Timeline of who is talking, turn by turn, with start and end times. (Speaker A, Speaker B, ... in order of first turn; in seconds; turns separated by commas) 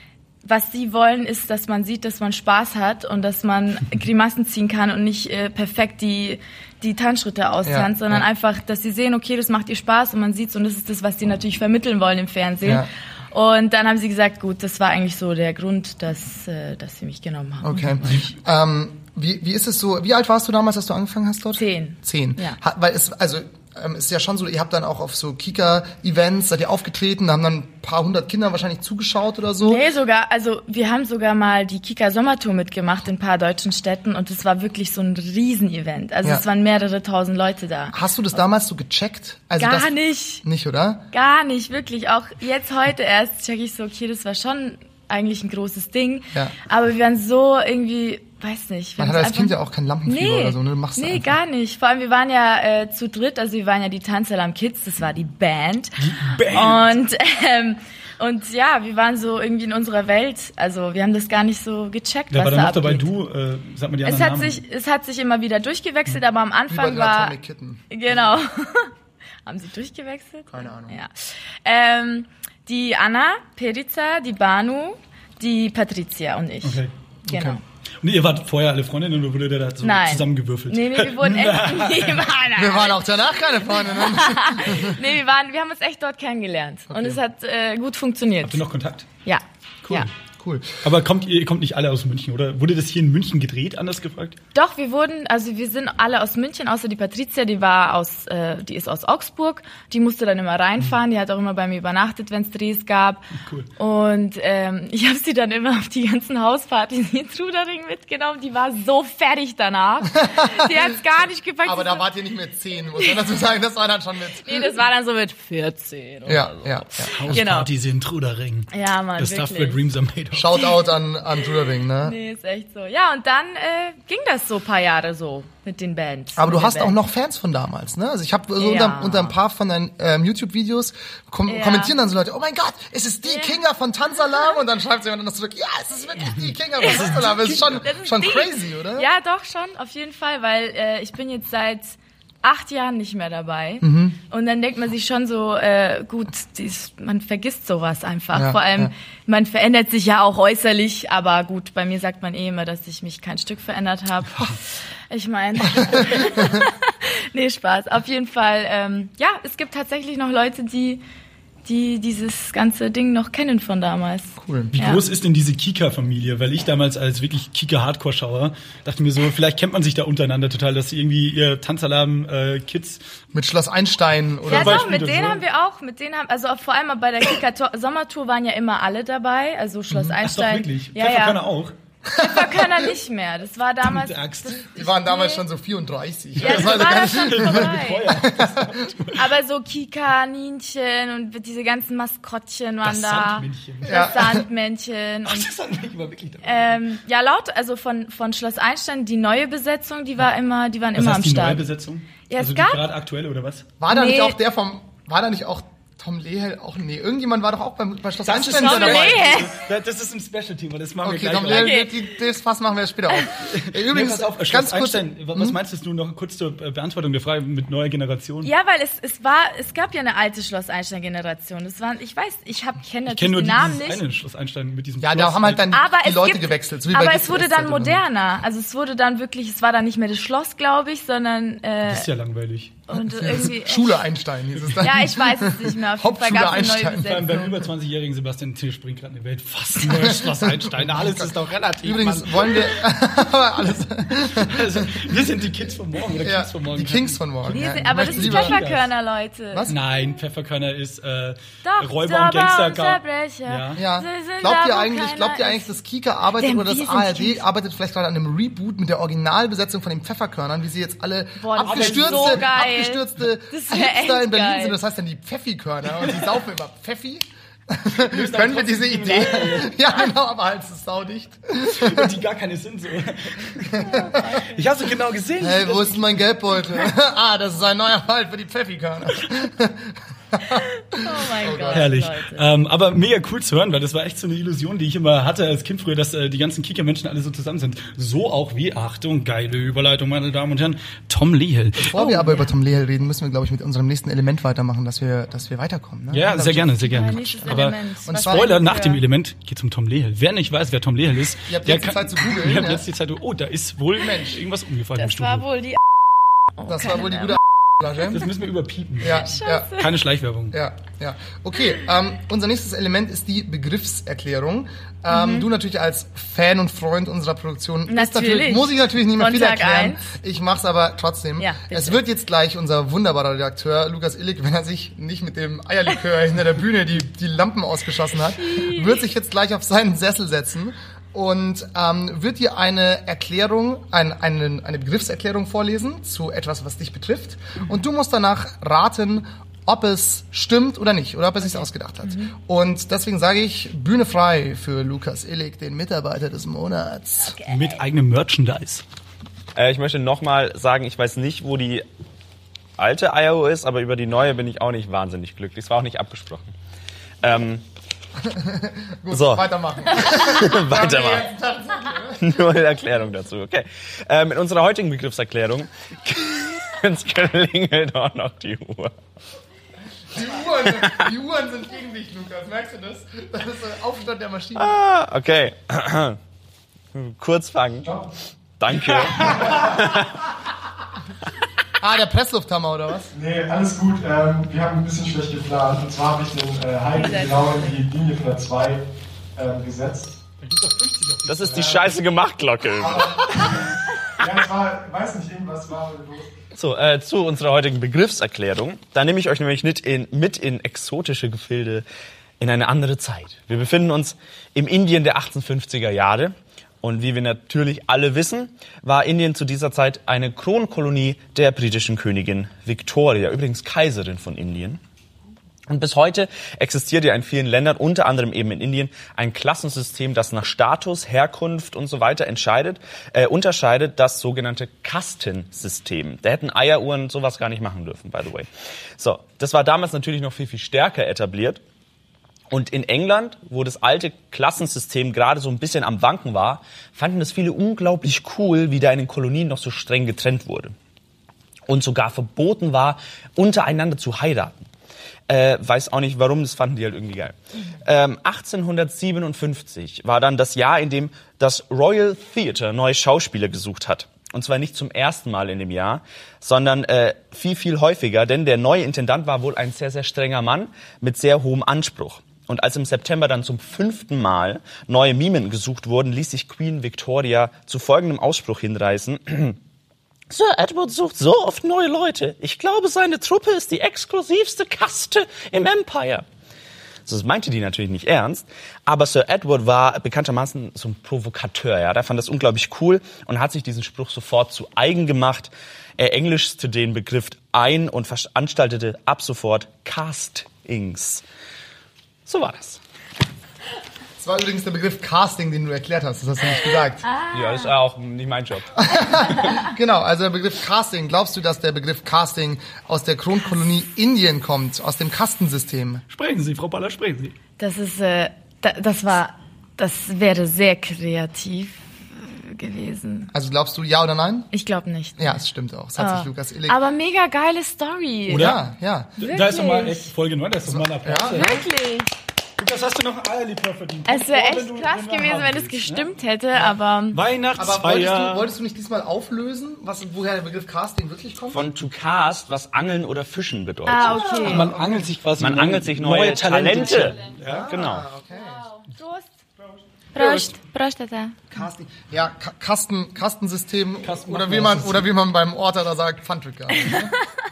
Speaker A: 0.4-18.2, Speaker B: 7.6-8.2, Speaker B: 17.6-29.8, Speaker A: 21.6-22.6, Speaker A: 29.6-38.0, Speaker B: 37.9-41.0, Speaker A: 39.6-40.4, Speaker A: 41.1-49.5, Speaker B: 49.0-51.4, Speaker A: 50.0-63.1, Speaker C: 56.0-57.0, Speaker C: 62.3-64.6, Speaker A: 64.0-67.4, Speaker B: 66.7-67.9, Speaker A: 67.9-68.9, Speaker A: 69.4-71.1, Speaker B: 70.5-71.0, Speaker A: 71.6-77.6, Speaker C: 76.6-76.9, Speaker B: 77.2-77.6, Speaker C: 78.0-82.3, Speaker A: 79.8-88.6, Speaker B: 82.5-85.0, Speaker B: 86.9-87.2, Speaker C: 88.4-89.1, Speaker A: 89.2-90.1, Speaker B: 90.4-90.8, Speaker C: 90.8-94.4, Speaker A: 94.5-112.0, Speaker C: 103.4-103.7, Speaker B: 110.3-110.7, Speaker B: 111.6-114.8, Speaker A: 114.4-117.7, Speaker B: 116.2-117.4, Speaker C: 117.1-120.6, Speaker A: 118.7-119.8, Speaker B: 120.3-122.2, Speaker A: 122.0-127.0, Speaker B: 126.4-139.1, Speaker A: 128.6-129.3, Speaker A: 131.4-131.9, Speaker A: 133.2-133.6, Speaker A: 136.8-161.0, Speaker C: 136.9-137.8, Speaker B: 143.8-144.2, Speaker B: 148.3-148.9, Speaker B: 155.8-156.6, Speaker A: 161.6-165.0, Speaker B: 164.4-164.7, Speaker C: 164.7-173.0, Speaker B: 173.3-174.9, Speaker C: 174.4-175.4, Speaker A: 174.5-181.4, Speaker C: 179.9-181.7, Speaker B: 182.1-182.9, Speaker A: 182.1-185.4, Speaker C: 183.8-184.6, Speaker B: 184.7-188.9, Speaker A: 186.4-188.2, Speaker C: 186.4-189.3, Speaker A: 189.1-195.5, Speaker C: 192.8-194.2, Speaker B: 193.8-194.4, Speaker C: 195.3-196.8, Speaker A: 196.4-201.6, Speaker C: 200.9-203.7, Speaker A: 202.3-202.8, Speaker B: 203.8-209.5, Speaker A: 203.9-204.4, Speaker C: 208.2-211.8, Speaker A: 208.5-209.6, Speaker B: 211.0-215.6, Speaker A: 211.5-212.0, Speaker C: 213.4-218.5, Speaker A: 218.4-224.0, Speaker C: 223.1-225.7, Speaker B: 225.0-228.0, Speaker A: 225.7-232.1, Speaker C: 231.8-232.8, Speaker A: 232.9-234.0, Speaker B: 233.0-237.3, Speaker A: 234.8-237.6, Speaker C: 237.0-242.7, Speaker B: 239.9-245.1, Speaker C: 244.3-248.9, Speaker B: 246.2-248.6, Speaker A: 247.5-249.7, Speaker B: 249.5-249.8, Speaker C: 249.7-253.8, Speaker A: 251.6-255.8, Speaker B: 253.8-272.1, Speaker A: 256.4-257.4, Speaker A: 261.4-264.8, Speaker C: 261.6-262.5, Speaker C: 267.9-269.8, Speaker C: 271.6-276.1, Speaker B: 273.7-274.0, Speaker A: 273.8-274.6, Speaker B: 275.4-281.9, Speaker A: 280.8-282.5, Speaker C: 281.7-292.1, Speaker B: 291.8-298.5, Speaker A: 292.0-292.4, Speaker C: 296.1-305.5, Speaker A: 296.8-299.0, Speaker B: 301.5-302.8, Speaker B: 304.0-304.4, Speaker A: 305.0-305.8, Speaker A: 306.6-307.4, Speaker B: 306.6-308.2, Speaker C: 308.1-310.6, Speaker B: 309.0-309.7, Speaker A: 309.1-309.9, Speaker B: 310.5-347.4, Speaker A: 315.1-315.5, Speaker A: 317.9-320.1, Speaker A: 321.4-322.0, Speaker A: 328.3-329.0, Speaker A: 341.4-342.3, Speaker A: 347.2-347.8, Speaker C: 347.4-348.8, Speaker D: 349.6-351.9, Speaker D: 352.8-356.5, Speaker D: 357.2-357.6, Speaker B: 358.2-362.5, Speaker D: 359.1-361.3, Speaker D: 362.2-368.9, Speaker B: 370.1-374.8, Speaker D: 370.7-371.1, Speaker D: 374.6-376.2, Speaker D: 376.9-377.9, Speaker D: 378.6-380.3, Speaker B: 381.8-383.1, Speaker E: 383.2-388.8, Speaker A: 386.9-387.8, Speaker C: 387.0-387.9, Speaker E: 389.4-390.1, Speaker C: 390.4-392.0, Speaker D: 391.3-393.6, Speaker E: 394.2-396.3, Speaker D: 396.5-401.8, Speaker D: 402.4-414.8, Speaker D: 415.7-431.6, Speaker D: 432.5-440.7, Speaker D: 441.7-444.6, Speaker D: 445.3-469.6, Speaker D: 470.3-476.2, Speaker D: 477.1-491.2, Speaker D: 492.2-492.8, Speaker B: 494.2-497.1, Speaker A: 497.1-497.6, Speaker D: 497.3-499.6, Speaker B: 498.8-506.0, Speaker C: 506.1-507.3, Speaker A: 507.6-513.3, Speaker B: 513.3-514.5, Speaker A: 514.5-515.3, Speaker B: 515.2-516.8, Speaker A: 516.0-518.5, Speaker C: 518.3-518.6, Speaker B: 518.3-519.1, Speaker C: 519.2-521.6, Speaker A: 519.2-520.1, Speaker B: 520.7-521.6, Speaker A: 521.2-522.1, Speaker C: 522.6-528.5, Speaker A: 524.1-527.2, Speaker B: 527.5-531.6, Speaker D: 531.5-534.4, Speaker A: 533.9-534.8, Speaker C: 533.9-537.7, Speaker D: 535.4-538.1, Speaker B: 537.4-538.7, Speaker A: 538.7-539.3, Speaker A: 540.1-541.4, Speaker B: 540.1-540.5, Speaker B: 541.5-547.1, Speaker C: 544.0-545.1, Speaker A: 546.9-547.1